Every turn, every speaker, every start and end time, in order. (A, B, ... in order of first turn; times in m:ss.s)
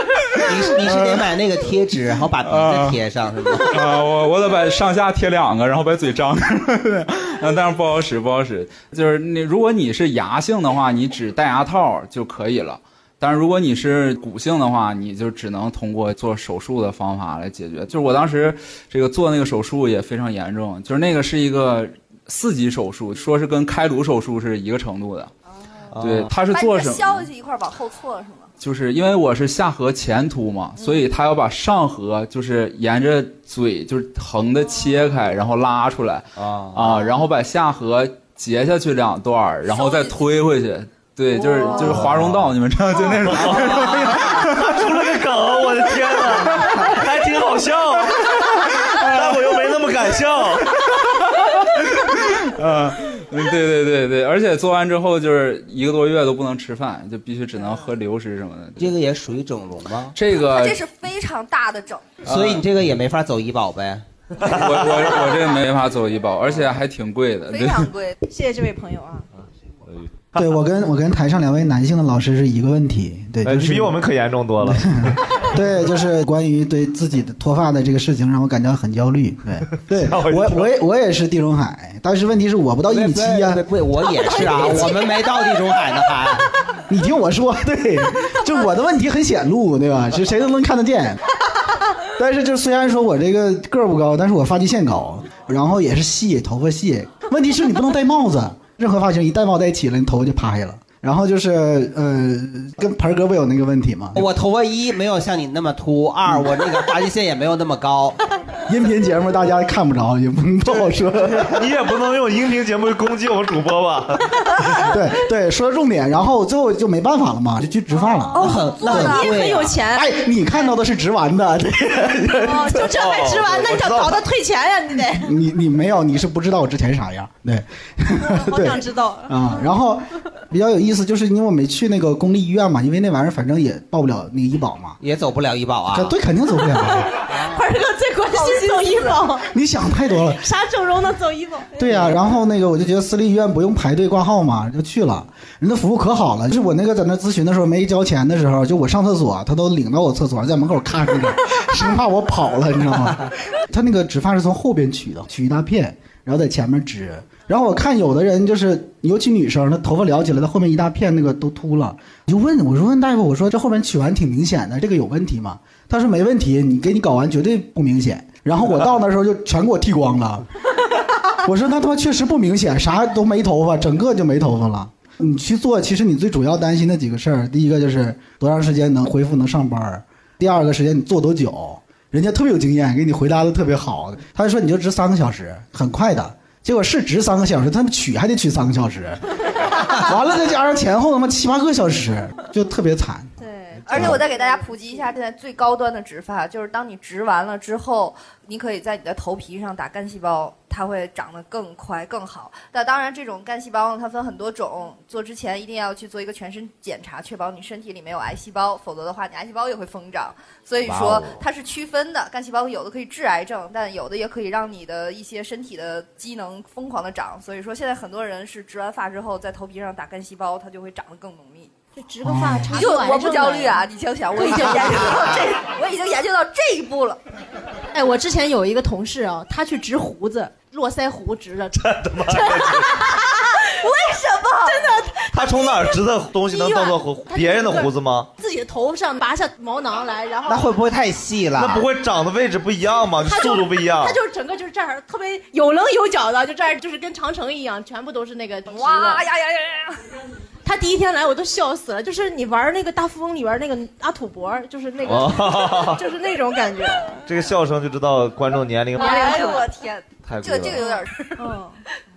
0:00.4-0:03.8 A
0:02.5-0:02.9 B
0:03.7-0:25.3 B
0:25.9-0:26.3 C
0:26.0-0:27.2 B
0:26.5-0:28.5 D
0:28.6-0:44.1 B
0:36.4-0:37.1 A
0:39.7-0:40.1 D
0:41.8-0:42.4 A
0:43.2-0:44.5 A
0:44.5-0:50.7 C
0:52.6-0:58.9 B
0:58.8-1:00.1 A
1:00.2-1:00.8 B
1:00.3-1:02.1 D
1:02.2-1:04.0 A
1:02.3-1:02.6 B
1:04.4-1:05.1 C
1:04.4-1:07.8 B
1:07.5-1:08.2 D
1:08.2-1:09.3 E
1:09.9-1:10.3 C
1:10.3-1:14.0 F
1:13.4-1:15.2 C
1:14.6-1:23.6 F
1:19.9-1:20.7 C
1:22.9-1:26.5 A
1:24.3-1:24.9 F
1:26.9-1:31.2 F
1:32.2-1:44.2 F
1:44.2-1:48.2 A
1:48.7-1:51.6 F
1:50.6-1:54.4 C
1:54.7-1:59.3 F
1:57.9-2:00.7 E
1:58.3-1:59.8 A
1:58.8-1:59.2 D
1:59.9-2:02.6 F
2:02.3-2:04.3 C
2:02.4-2:05.3 E
2:05.2-2:15.0 F
2:08.2-2:09.7 E
2:15.0-2:16.1 A
2:15.9-2:17.1 F
2:17.3-2:19.5 E
2:18.3-2:19.2 D
2:19.5-2:20.4 F
2:20.3-2:21.9 E
2:21.8-2:50.4 F
2:51.4-3:13.3 F
3:13.4-3:15.1 E
3:13.8-3:41.7 D
3:13.9-3:14.2 F
3:30.8-3:31.4 A
3:42.0-3:45.5 E
3:42.7-3:47.2 D
3:47.9-3:53.6 E
3:51.7-3:53.1 C
3:53.7-3:54.9 D
3:54.6-4:00.7 E
3:55.3-3:58.3 C
4:00.5-4:01.8 A
4:01.6-4:04.2 C
4:03.2-4:09.2 E
4:08.7-4:10.0 D
4:10.6-4:17.2 E
4:15.0-4:16.0 C
4:17.2-4:19.6 C
4:18.9-4:19.7 E
4:19.0-4:21.5 D
4:20.2-4:20.8 C
4:20.8-4:21.8 E